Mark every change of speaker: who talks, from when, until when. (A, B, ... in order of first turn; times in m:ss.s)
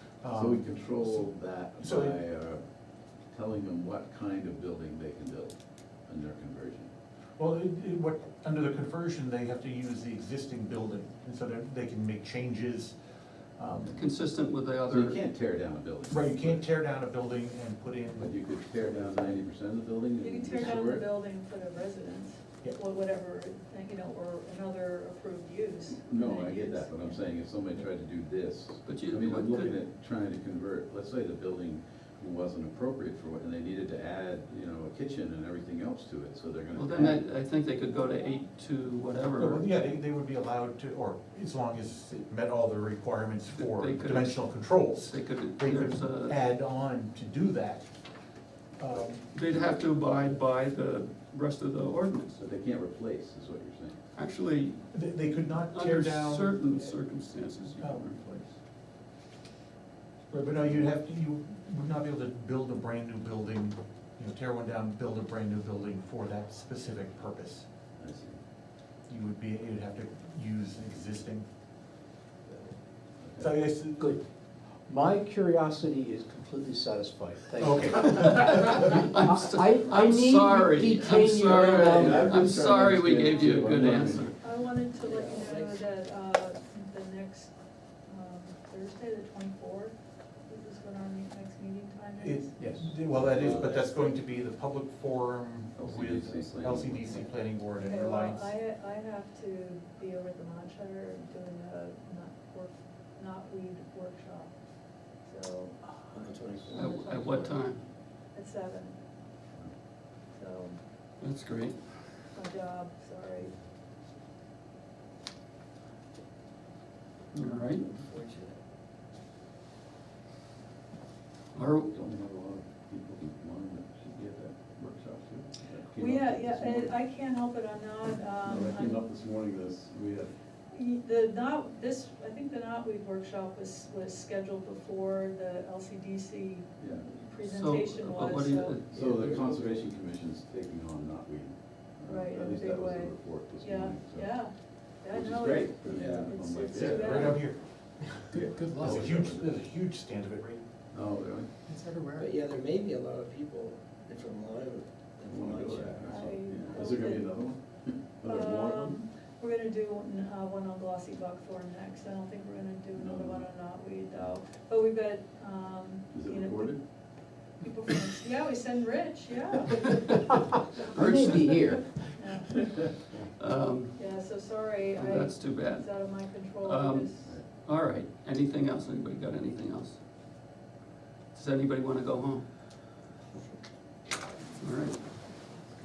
0:00.2-0:02.2 A
0:00.3-0:02.6 B
0:03.3-0:06.9 B
0:07.4-0:13.0 A
0:13.6-0:13.9 A
0:14.0-0:15.2 C
0:14.9-0:16.7 B
0:16.1-0:19.4 A
0:18.2-0:21.1 B
0:20.2-0:27.2 D
0:26.1-0:37.2 B
0:28.8-0:29.8 C
0:36.7-0:39.6 C
0:39.4-0:47.9 A
0:43.5-0:46.4 C
0:48.8-0:49.3 A
0:49.3-0:52.4 C
0:52.4-0:54.0 B
0:54.2-0:54.9 C
0:54.9-0:57.0 A
0:55.7-0:58.5 C
0:57.8-0:58.1 A
1:00.3-1:07.7 A
1:08.0-1:08.4 B
1:09.1-1:11.5 A
1:13.2-1:13.5 B
1:13.4-1:14.2 A
1:14.9-1:22.6 E
1:17.6-1:19.0 A
1:18.7-1:24.4 C
1:21.4-1:24.3 B
1:24.4-1:27.5 D
1:25.0-1:25.8 F
1:28.0-1:30.0 D
1:30.5-1:32.6 D
1:32.2-1:38.5 A
1:32.6-1:32.9 E
1:33.2-1:33.8 B
1:35.8-1:37.3 B
1:37.8-1:44.6 D
1:45.2-1:47.8 D
1:46.1-1:46.9 F
1:46.8-1:47.8 C
1:48.3-1:49.0 D
1:50.3-1:50.8 D
1:51.2-1:51.8 C
1:52.3-1:53.5 D
1:57.3-1:57.8 C
1:57.9-1:58.6 D
2:01.5-2:02.0 C
2:01.9-2:06.9 B
2:06.0-2:09.0 D
2:08.4-2:10.3 B
2:10.7-2:18.8 D
2:16.8-2:17.1 B
2:17.4-2:19.0 C
2:18.9-2:24.3 B
2:19.0-2:19.6 F
2:22.0-2:27.5 D
2:25.1-2:27.4 B
2:25.8-2:26.8 F
2:26.8-2:27.6 A
2:28.3-2:30.6 A
2:28.3-2:29.6 B
2:30.9-2:31.5 B
2:32.1-2:36.2 F
2:35.3-2:39.0 B
2:36.0-2:37.3 D
2:38.2-2:46.8 D
2:43.0-2:43.5 B
2:46.1-2:46.8 B
2:47.6-2:50.2 D
2:50.0-2:50.3 C
2:50.9-2:51.8 C
2:50.9-2:52.6 E
2:52.2-2:52.7 D
2:53.4-2:54.0 C
2:54.0-2:57.3 D
2:54.9-3:00.0 C
3:01.3-3:02.5 C
3:04.6-3:05.0 C